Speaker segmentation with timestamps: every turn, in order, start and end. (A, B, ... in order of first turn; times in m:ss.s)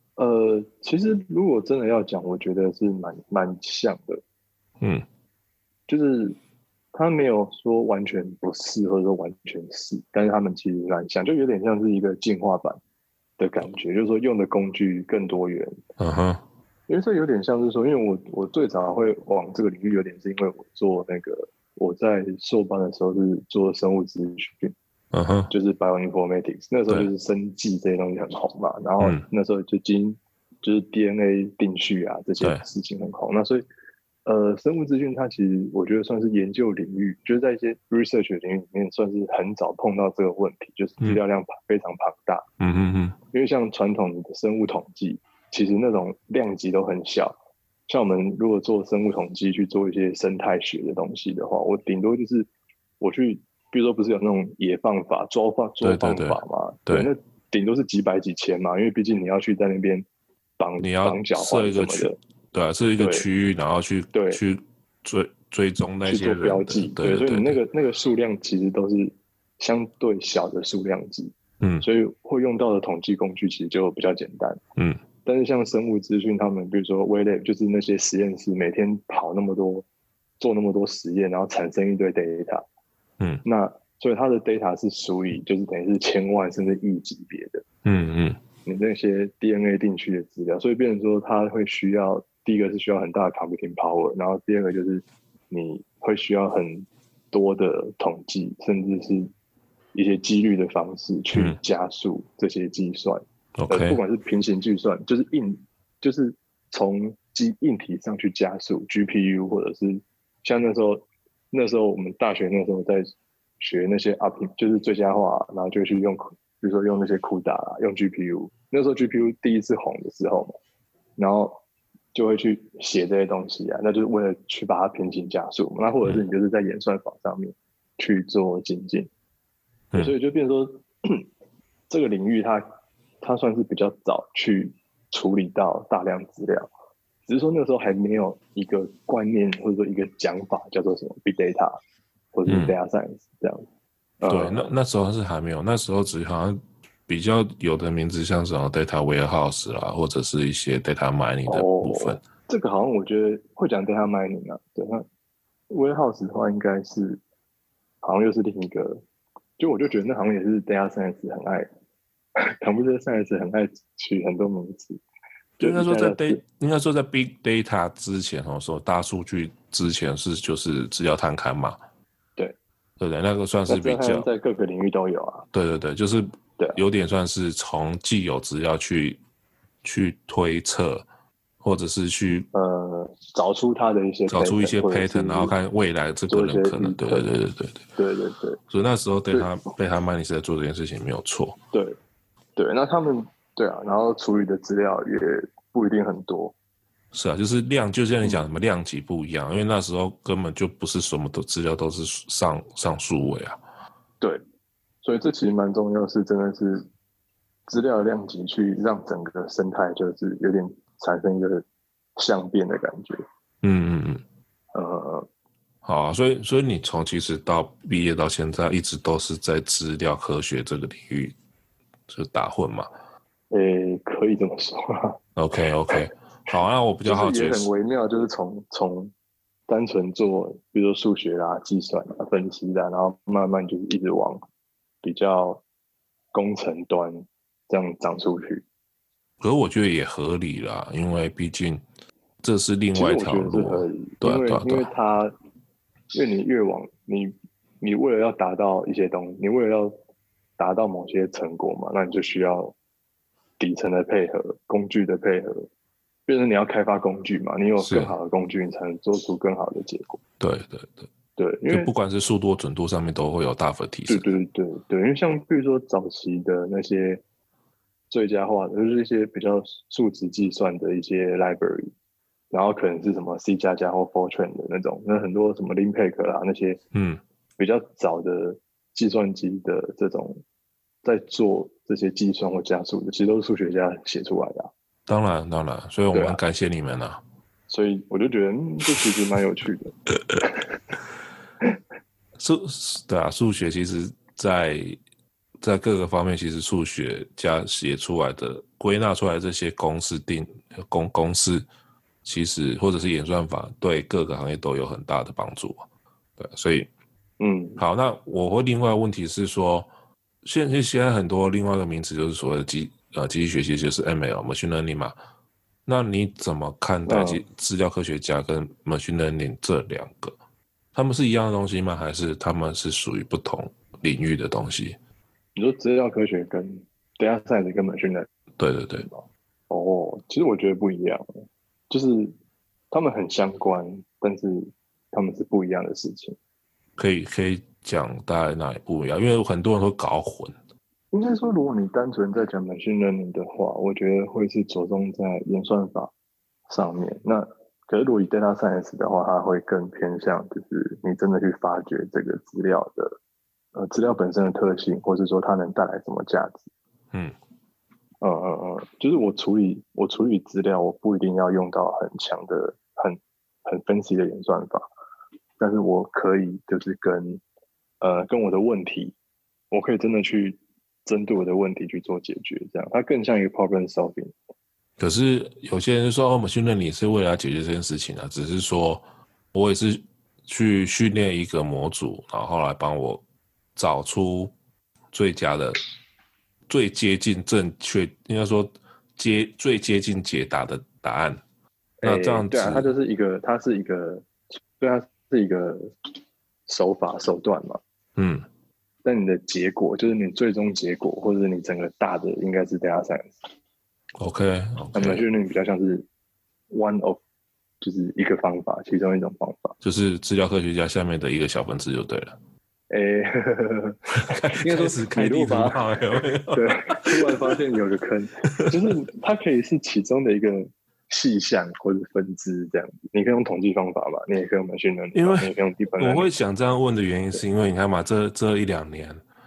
0:00.2-0:04.2 A
0:05.9-0:06.4 A
0:06.9-0:12.8 A
0:13.4-0:15.8 A
0:16.0-0:16.4 B
0:16.9-0:24.7 A
0:25.1-0:25.5 B
0:25.5-0:33.7 A
0:29.0-0:29.2 B
0:34.2-0:42.4 A
0:42.6-0:43.2 B
0:43.3-0:47.4 A
0:47.9-0:52.5 A
0:53.0-1:00.1 A
0:55.8-0:57.1 B
1:00.6-1:02.2 A
1:00.8-1:07.6 B
1:03.0-1:03.2 A
1:04.1-1:04.4 A
1:06.0-1:14.6 A
1:11.6-1:11.8 B
1:14.8-1:15.0 B
1:15.2-1:19.8 A
1:20.4-1:22.6 A
1:23.4-1:27.6 A
1:27.8-1:28.4 B
1:28.6-1:39.3 A
1:39.9-2:00.6 A
1:41.3-1:41.6 B
1:43.6-1:44.0 B
2:01.2-2:01.6 A
2:02.1-2:09.1 A
2:10.0-2:11.2 A
2:11.9-2:12.6 A
2:13.2-2:16.7 A
2:17.3-2:21.8 A
2:22.3-2:23.6 A
2:22.5-2:22.8 B
2:24.2-2:24.7 A
2:24.2-2:32.2 B
2:31.5-2:35.0 A
2:35.7-2:37.2 A
2:38.0-2:39.0 A
2:39.6-2:41.7 A
2:42.6-2:45.0 A
2:45.6-2:51.8 B
2:45.6-2:46.4 A
2:53.0-2:54.3 B
2:53.7-2:55.5 A
2:55.5-2:59.2 B
2:59.8-3:01.0 B
3:01.6-3:02.5 B
3:02.5-3:05.5 A
3:04.3-3:07.8 B
3:06.3-3:07.3 A
3:08.0-3:08.6 A
3:08.7-3:11.6 B
3:11.7-3:12.0 A
3:12.6-3:16.5 A
3:17.1-3:23.6 B
3:25.0-3:26.9 A
3:27.7-3:31.6 A
3:32.2-3:33.2 A
3:33.6-3:34.2 B
3:34.7-3:35.3 A
3:35.8-3:41.3 B
3:42.1-3:42.9 B
3:43.5-3:45.2 A
3:45.4-3:47.7 B
3:47.0-3:49.1 A
3:49.7-3:54.4 A
3:55.0-3:55.6 A
3:56.3-3:58.6 A
3:59.4-4:01.8 B
4:02.4-4:04.9 B
4:02.9-4:05.3 A
4:06.1-4:10.0 A
4:10.6-4:12.7 A
4:13.6-4:15.7 A
4:16.3-4:20.2 A
4:17.8-4:18.1 B
4:20.4-4:21.1 B
4:21.4-4:21.9 A
4:21.7-4:24.3 B
4:24.1-4:27.2 A
4:28.1-4:31.9 A
4:32.5-4:36.8 A
4:36.9-4:37.2 B
4:37.6-4:40.4 A
4:41.0-4:44.7 A
4:45.1-4:47.2 B
4:46.1-4:46.4 A
4:47.7-4:50.6 A
4:52.4-4:55.0 B
4:55.6-5:01.6 B
5:02.2-5:05.8 B
5:06.4-5:06.9 B
5:07.4-5:07.8 A
5:07.8-5:09.9 B
5:10.4-5:15.1 B
5:15.8-5:20.3 B
5:17.0-5:17.4 A
5:20.9-5:25.0 B
5:25.6-5:28.3 A
5:28.6-5:29.1 B
5:29.0-5:31.2 A
5:31.9-5:32.3 A
5:32.9-5:36.4 A
5:37.0-5:40.5 B
5:41.1-5:46.1 A
5:46.7-5:53.2 A
5:53.7-5:56.7 A
5:58.2-6:04.9 A
6:05.6-6:07.4 A
6:08.0-6:09.1 A
6:09.7-6:14.3 A
6:15.0-6:23.2 B
6:23.8-6:24.5 B
6:25.1-6:25.8 B
6:26.7-6:31.4 B
6:32.0-6:36.1 A
6:32.0-6:32.9 B
6:36.7-6:37.8 A
6:38.2-6:38.4 B
6:39.0-6:43.4 A
6:44.2-6:45.2 B
6:44.9-6:46.1 A
6:46.7-6:47.2 A
6:47.8-6:49.7 A
6:49.8-6:52.4 B
6:52.9-6:55.9 A
6:54.3-6:57.5 B
6:56.5-7:06.3 A
7:05.1-7:09.2 B